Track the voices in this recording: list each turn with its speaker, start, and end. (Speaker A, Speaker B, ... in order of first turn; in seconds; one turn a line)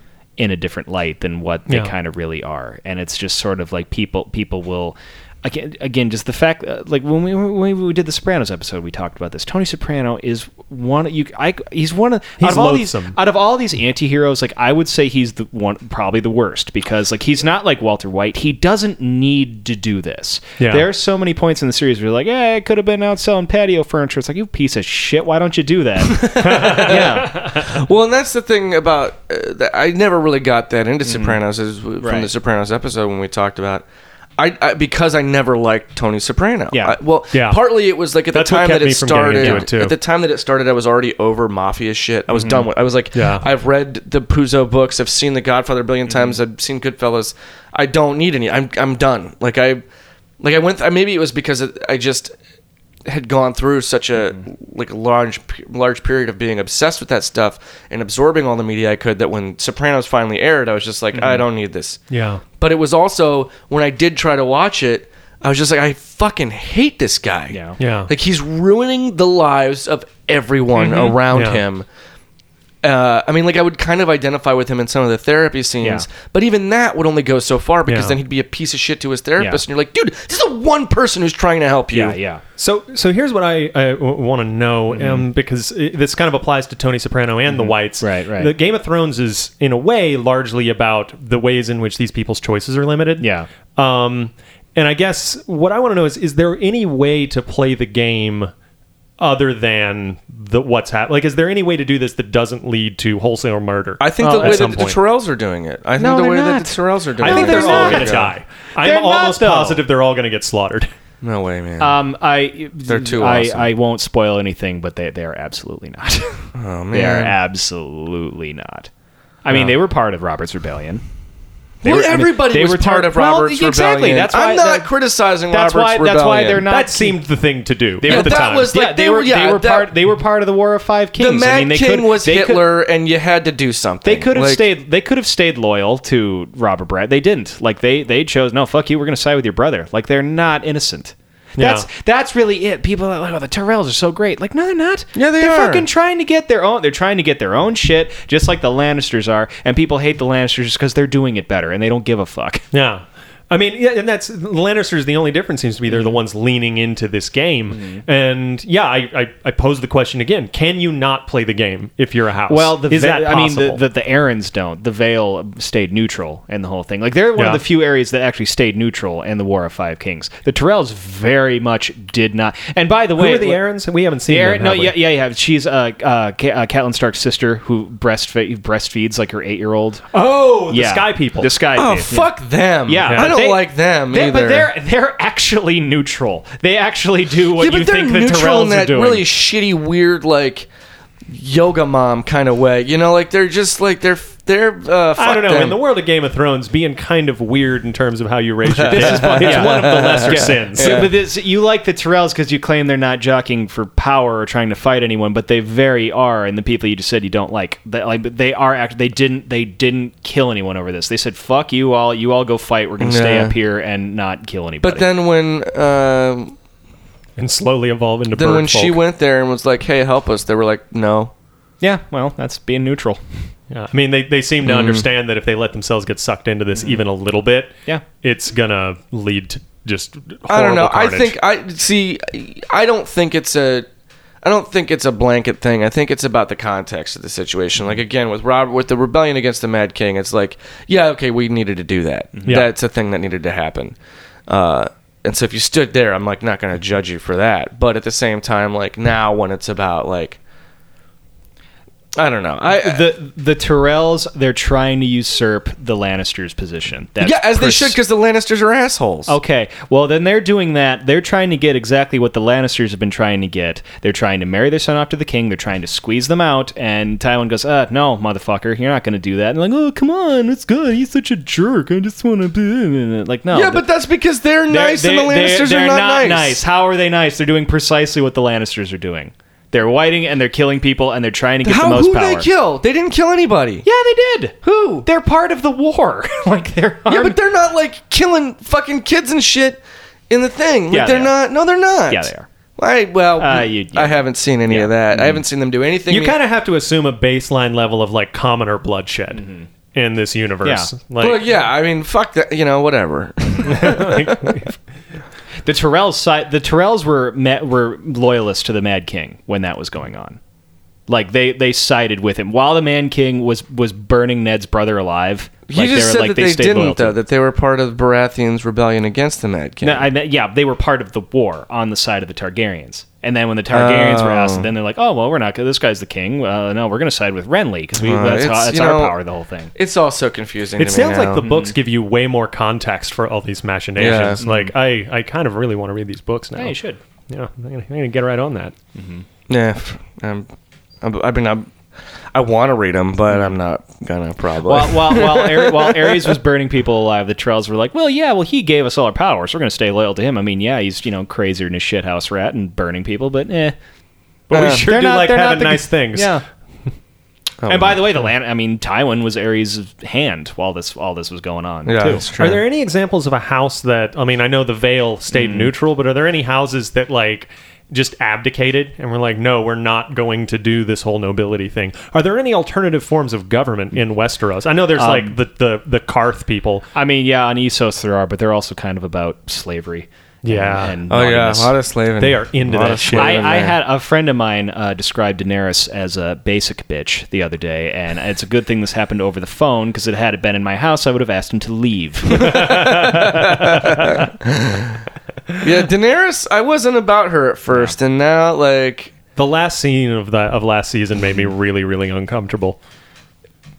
Speaker A: 0.4-27.5
Speaker B: 12.4-13.2
Speaker B: 20.6-20.9
Speaker C: 26.1-33.8
Speaker B: 26.4-27.6
Speaker A: 31.1-31.4
Speaker A: 32.0-32.3
Speaker C: 34.4-49.8
Speaker A: 36.7-37.0
Speaker B: 37.3-37.6
Speaker B: 38.3-40.0
Speaker A: 39.4-39.7
Speaker A: 42.3-42.6
Speaker B: 43.1-43.5
Speaker A: 46.1-46.4
Speaker C: 50.4-52.3
Speaker C: 53.0-62.0
Speaker A: 61.1-61.4
Speaker B: 62.1-62.4
Speaker C: 62.6-71.8
Speaker A: 67.5-67.8
Speaker B: 67.8-68.1
Speaker B: 70.8-71.6
Speaker C: 72.8-82.2
Speaker B: 77.9-78.1
Speaker A: 79.4-79.6
Speaker A: 81.9-82.4
Speaker B: 82.6-98.5
Speaker A: 84.9-85.3
Speaker A: 87.5-88.5
Speaker A: 93.2-93.5
Speaker B: 99.2-105.0
Speaker C: 104.0-108.3
Speaker A: 104.2-104.8
Speaker A: 106.0-109.8
Speaker B: 107.2-110.9
Speaker C: 111.2-112.0
Speaker A: 111.8-118.9
Speaker C: 112.8-113.7
Speaker C: 116.5-117.3
Speaker A: 119.4-121.0
Speaker B: 119.5-119.7
Speaker A: 121.8-124.9
Speaker C: 121.8-126.6
Speaker A: 125.5-127.2
Speaker B: 126.6-128.7
Speaker A: 128.0-132.7
Speaker C: 128.0-129.9
Speaker C: 131.2-134.7
Speaker A: 134.0-152.7
Speaker B: 141.6-141.8
Speaker C: 145.1-145.8
Speaker B: 152.7-163.8
Speaker A: 155.9-156.2
Speaker A: 157.7-158.0
Speaker A: 162.5-173.6
Speaker B: 167.3-167.6
Speaker B: 173.2-175.0
Speaker A: 174.3-180.1
Speaker B: 180.1-181.5
Speaker A: 180.7-182.3
Speaker C: 181.7-184.7
Speaker A: 182.8-189.2
Speaker B: 183.1-183.3
Speaker C: 187.6-190.7
Speaker C: 191.3-195.8
Speaker B: 195.2-201.1
Speaker C: 198.7-201.1
Speaker A: 198.8-215.1
Speaker C: 213.0-213.5
Speaker C: 214.8-216.5
Speaker B: 217.4-219.0
Speaker C: 218.3-221.3
Speaker A: 221.8-223.2
Speaker B: 223.7-231.3
Speaker C: 224.6-225.0
Speaker C: 230.5-233.9
Speaker C: 234.4-243.9
Speaker C: 244.5-250.4
Speaker C: 252.2-253.1
Speaker A: 252.7-258.0
Speaker C: 257.2-259.4
Speaker A: 259.3-273.8
Speaker C: 273.5-276.6
Speaker A: 274.7-282.5
Speaker C: 281.6-283.8
Speaker A: 283.8-287.4
Speaker C: 284.6-285.1
Speaker C: 287.1-296.4
Speaker A: 290.9-291.4
Speaker A: 292.1-292.5
Speaker A: 293.4-295.4
Speaker B: 296.1-301.4
Speaker A: 299.3-299.6
Speaker A: 300.6-300.9
Speaker C: 301.2-304.5
Speaker B: 303.6-304.8
Speaker A: 305.6-310.4
Speaker A: 311.1-317.2
Speaker C: 315.7-320.1
Speaker A: 319.8-329.7
Speaker C: 323.7-324.7
Speaker C: 328.0-329.1
Speaker C: 329.7-331.4
Speaker B: 330.8-336.8
Speaker A: 331.4-331.7
Speaker C: 334.0-334.4
Speaker A: 334.4-334.7
Speaker A: 336.6-337.0
Speaker B: 337.3-338.7
Speaker A: 338.9-339.2
Speaker C: 339.5-340.5
Speaker C: 341.0-341.7
Speaker C: 342.3-346.4
Speaker A: 344.6-353.7
Speaker B: 354.5-356.3
Speaker C: 354.5-354.9
Speaker A: 354.5-356.4
Speaker C: 357.6-358.0
Speaker A: 357.7-362.3
Speaker C: 361.9-362.6
Speaker B: 362.4-376.9
Speaker A: 365.4-365.6
Speaker A: 374.9-375.4
Speaker A: 376.9-381.7
Speaker B: 380.4-381.0
Speaker C: 381.1-383.8
Speaker B: 382.2-383.4
Speaker A: 383.1-393.1
Speaker C: 392.3-395.0
Speaker B: 392.4-394.0
Speaker C: 395.6-399.1
Speaker B: 399.4-402.8